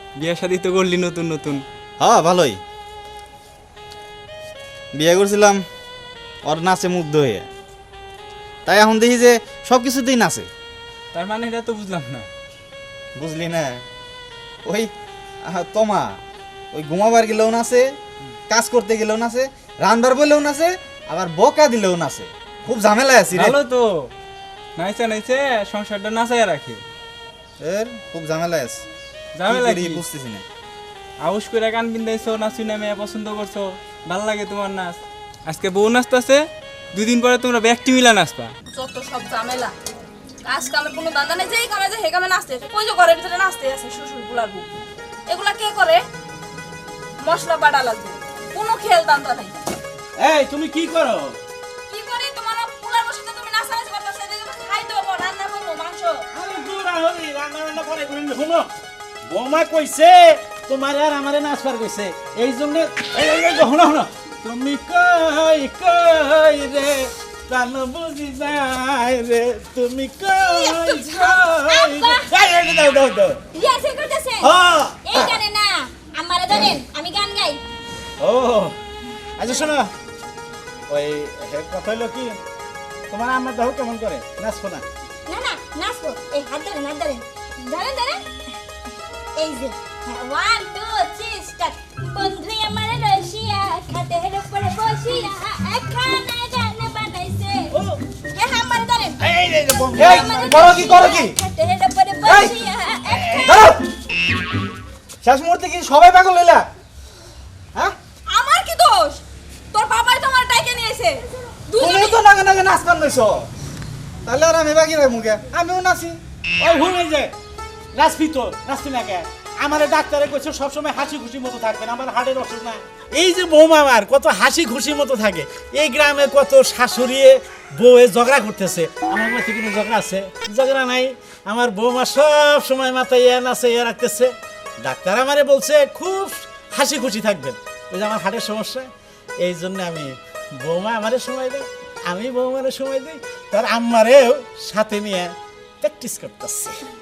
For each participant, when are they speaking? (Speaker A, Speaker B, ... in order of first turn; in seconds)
Speaker A: 0.1-1.6, 11.1-12.3, 23.3-24.1, 24.8-26.8, 29.3-30.0, 31.2-38.5
Speaker B: 2.0-2.6, 4.9-5.6, 6.4-7.5, 8.7-10.5, 13.1-13.8, 14.6-14.9, 15.4-16.2, 16.7-18.0, 18.5-23.6, 27.6-28.8, 29.5-30.4, 99.9-101.4, 102.2-102.5, 103.4-103.8, 105.2-106.7, 111.8-113.5, 114.2-116.2
Speaker C: 38.7-39.7, 40.5-44.6, 45.3-46.0, 47.2-49.6, 51.9-56.2, 108.3-109.2, 109.7-111.2, 111.7-112.2
Speaker D: 50.2-51.4, 56.3-58.7, 59.3-73.4, 74.4-75.4, 78.2-78.8, 79.4-79.9, 80.9-82.4, 83.1-84.8, 99.2-100.6, 103.2-103.5, 116.6-117.3, 117.9-134.3, 134.8-138.9, 139.4-146.8
Speaker E: 53.6-54.3, 70.4-72.3, 73.5-74.5, 75.0-77.6, 85.3-88.2, 89.3-97.8, 98.3-99.2, 99.9-103.6